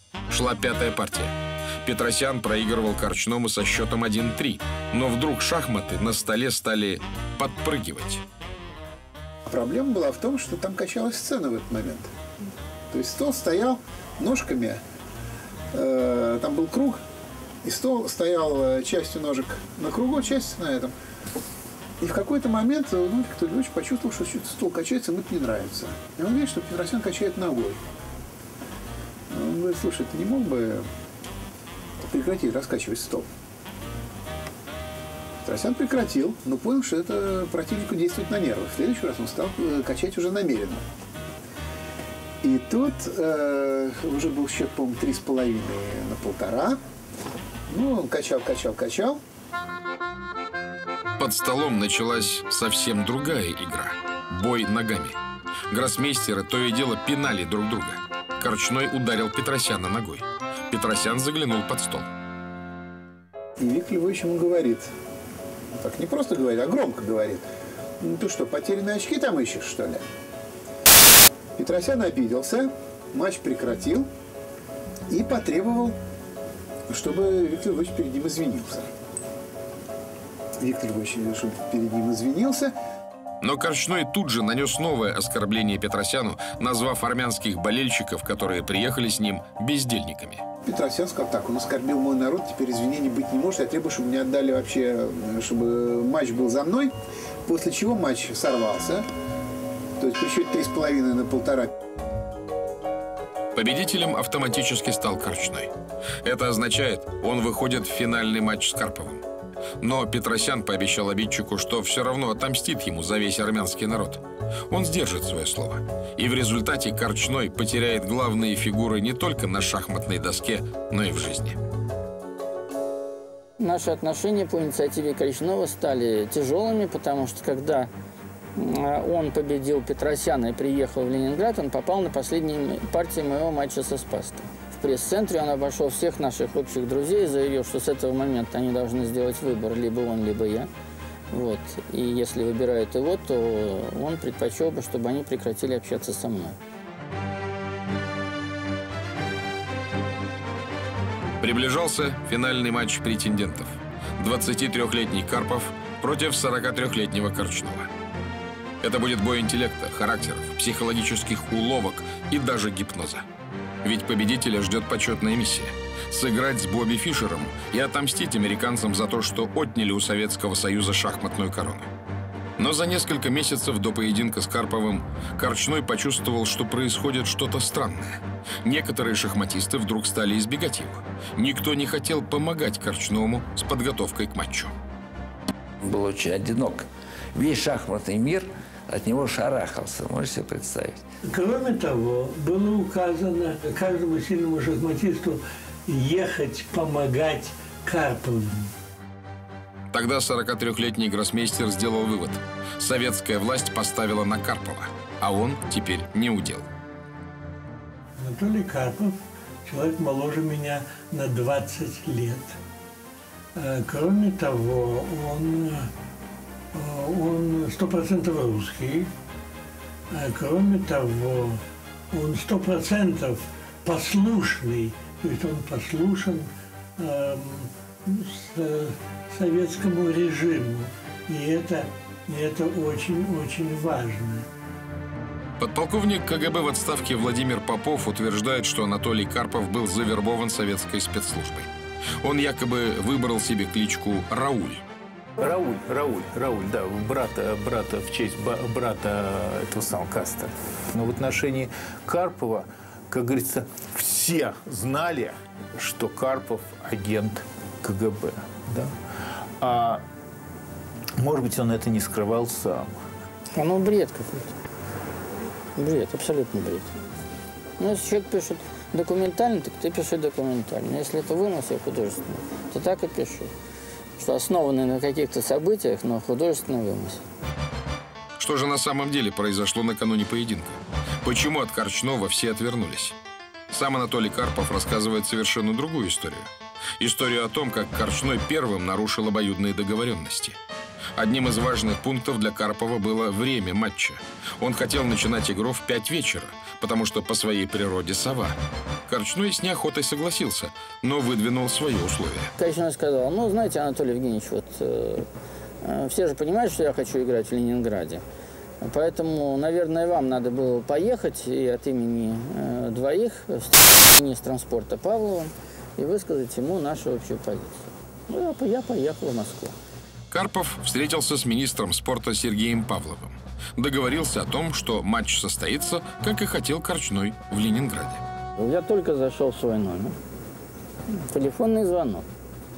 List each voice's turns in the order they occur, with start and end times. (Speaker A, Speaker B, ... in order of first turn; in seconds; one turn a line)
Speaker A: 0.3-8.2
Speaker B: 9.5-12.1
Speaker B: 12.9-14.8
Speaker B: 15.7-17.0
Speaker B: 17.6-20.9
Speaker B: 22.0-27.8
Speaker B: 29.3-30.9
Speaker B: 32.1-33.3
Speaker B: 35.4-40.8
Speaker B: 42.4-46.8
Speaker B: 47.7-49.2
Speaker A: 51.2-55.2
Speaker A: 55.7-62.1
Speaker B: 63.6-64.9
Speaker B: 65.8-67.4
Speaker B: 68.0-70.0
Speaker B: 71.6-74.1
Speaker B: 75.1-76.0
Speaker B: 76.9-78.9
Speaker B: 80.6-82.7
Speaker A: 83.4-90.5
Speaker B: 90.6-96.9
Speaker B: 97.5-99.0
Speaker B: 100.0-101.7
Speaker A: 103.5-109.2
Speaker A: 109.8-121.6
Speaker C: 123.6-127.9
Speaker C: 128.6-140.7
Speaker C: 141.3-146.6
Speaker A: 151.4-157.9
Speaker A: 158.8-163.3
Speaker A: 163.8-171.9
Speaker A: 172.6-184.7
Speaker D: 185.8-191.1
Speaker E: 191.3-198.7
Speaker A: 199.9-206.7
Speaker E: 208.2-212.6
Speaker E: 213.6-215.9
Speaker E: 216.7-219.1
Speaker E: 220.1-221.6
Speaker E: 222.1-234.5
Speaker A: 235.6-244.8
Speaker F: 245.4-258.9
Speaker F: 259.6-260.0
Speaker F: 261.2-262.9
Speaker C: 263.5-264.5
Speaker C: 265.8-266.9
Speaker C: 267.8-273.5
Speaker C: 274.2-277.2
Speaker A: 278.4-283.2
Speaker A: 283.7-290.6
Speaker A: 291.1-302.5
Speaker C: 302.6-305.3
Speaker C: 305.8-308.2
Speaker C: 308.8-319.7
Speaker A: 320.3-328.2
Speaker C: 328.6-330.2
Speaker C: 331.1-332.3